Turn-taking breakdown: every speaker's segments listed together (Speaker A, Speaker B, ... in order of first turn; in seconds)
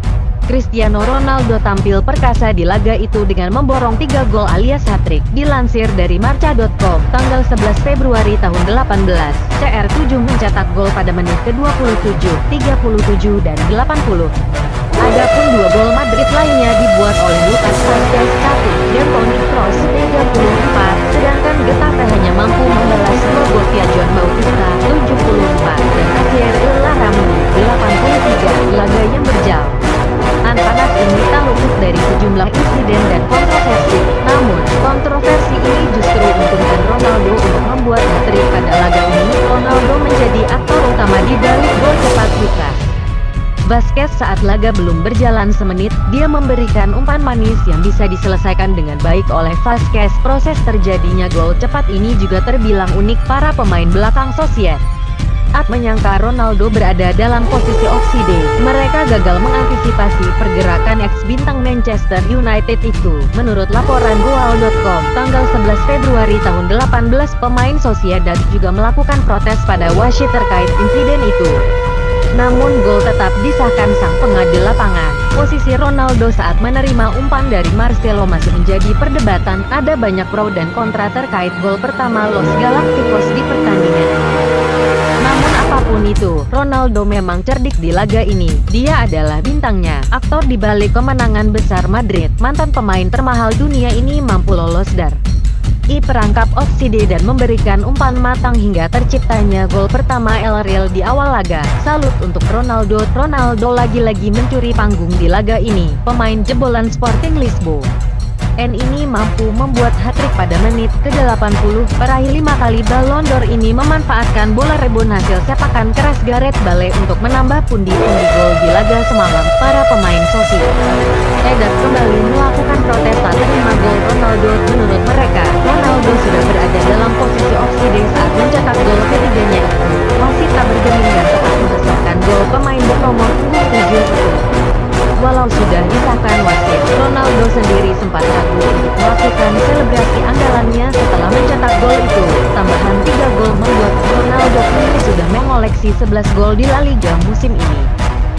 Speaker A: 0.5-14.3, 15.0-29.8, 30.4-43.0, 43.7-54.8, 55.5-71.6, 72.3-84.5, 85.2-95.2, 95.9-107.9, 108.6-120.7, 121.5-134.4, 135.2-147.9